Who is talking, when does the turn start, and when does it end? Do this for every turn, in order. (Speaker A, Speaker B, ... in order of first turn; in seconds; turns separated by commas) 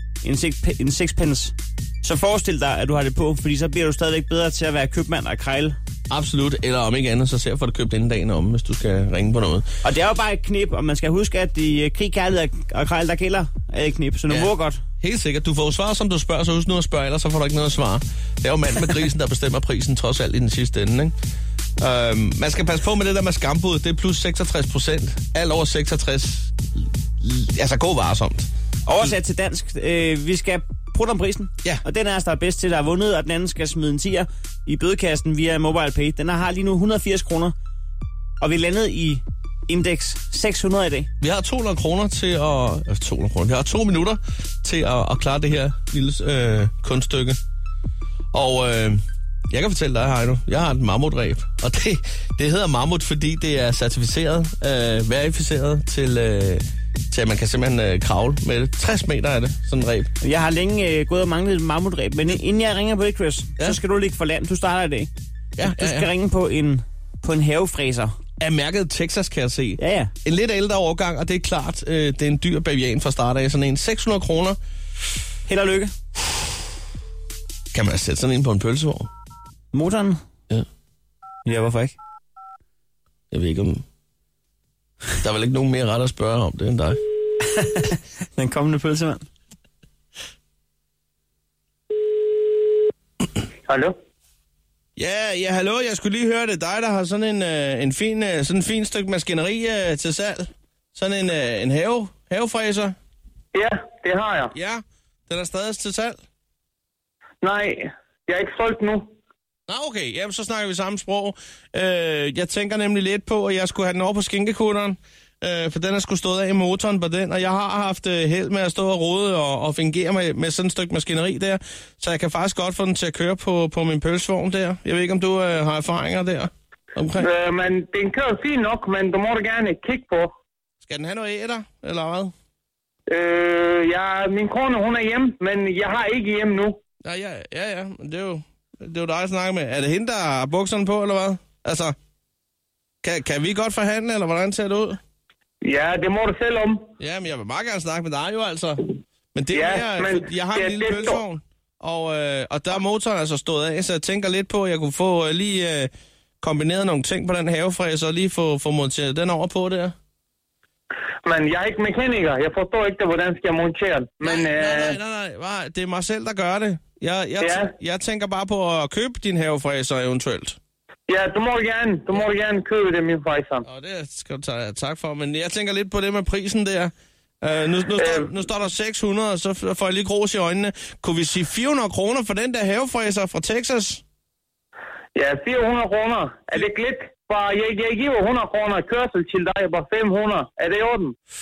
Speaker A: 0.2-5.8, Speaker B: 6.1-9.7, Speaker A: 9.8-14.8, Speaker B: 14.3-21.1, Speaker B: 21.8-26.5, Speaker B: 27.2-29.1, Speaker A: 28.9-37.5, Speaker A: 38.4-41.1, Speaker B: 41.2-47.4, Speaker B: 48.3-60.1, Speaker A: 60.2-65.1, Speaker B: 65.6-66.1, Speaker A: 65.6-68.1, Speaker B: 68.4-74.6, Speaker A: 69.8-70.1, Speaker A: 75.5-75.9, Speaker B: 77.7-79.1, Speaker A: 79.7-80.2, Speaker A: 81.4-82.0, Speaker B: 83.3-83.8, Speaker B: 85.2-87.0, Speaker A: 87.5-89.2, Speaker C: 93.7-93.9, Speaker B: 95.0-102.9, Speaker C: 103.5-104.5, Speaker B: 104.5-106.2, Speaker C: 107.4-109.0, Speaker B: 109.7-127.3, Speaker C: 127.2-130.3, Speaker B: 130.8-132.3, Speaker C: 133.1-136.8, Speaker B: 137.0-141.9, Speaker B: 143.0-145.0, Speaker C: 145.6-146.8, Speaker B: 147.0-148.8, Speaker B: 149.3-155.9, Speaker C: 149.5-151.2, Speaker B: 156.4-159.9, Speaker C: 161.2-165.0, Speaker B: 164.2-170.6, Speaker C: 167.4-167.7, Speaker C: 171.1-173.6, Speaker B: 173.6-184.0, Speaker C: 178.0-178.3, Speaker C: 185.1-191.1